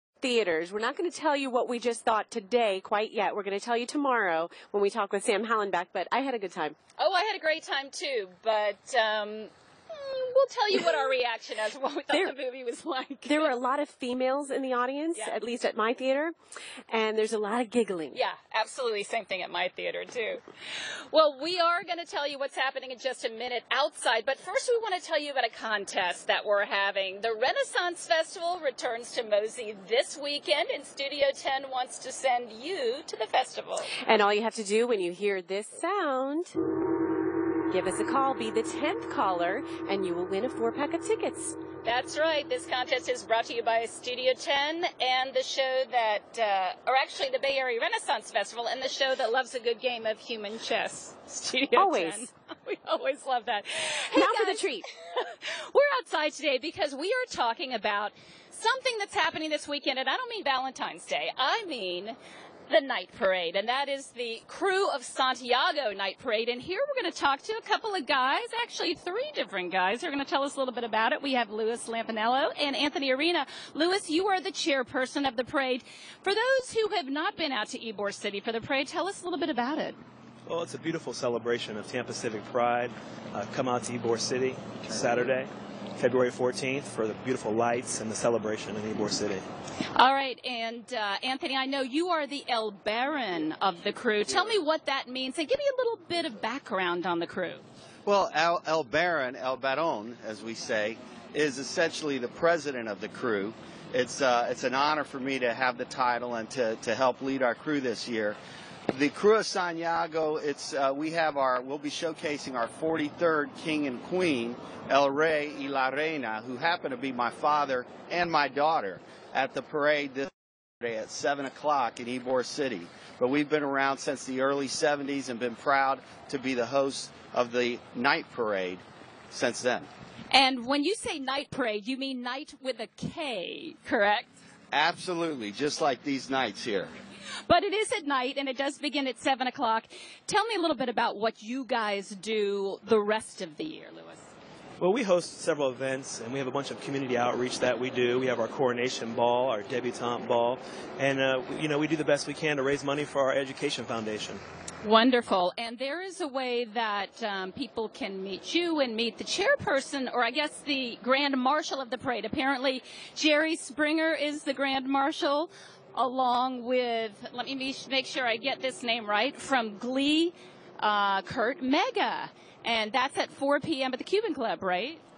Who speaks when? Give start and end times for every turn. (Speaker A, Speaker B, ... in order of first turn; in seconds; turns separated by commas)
Speaker A: 0.2-6.8, Speaker B: 7.0-13.5, Speaker A: 13.2-16.4, Speaker A: 16.9-18.2, Speaker B: 18.1-33.9, Speaker A: 34.0-36.6, Speaker A: 37.7-41.6, Speaker B: 41.8-62.2, Speaker A: 51.8-52.2, Speaker A: 54.1-54.9, Speaker B: 62.7-80.0, Speaker C: 80.5-89.5, Speaker B: 89.9-97.6, Speaker D: 98.0-108.4, Speaker D: 108.9-129.9, Speaker B: 130.3-134.3, Speaker D: 134.7-136.9, Speaker B: 137.5-144.3, Speaker C: 144.8-154.4, Speaker B: 154.8-175.0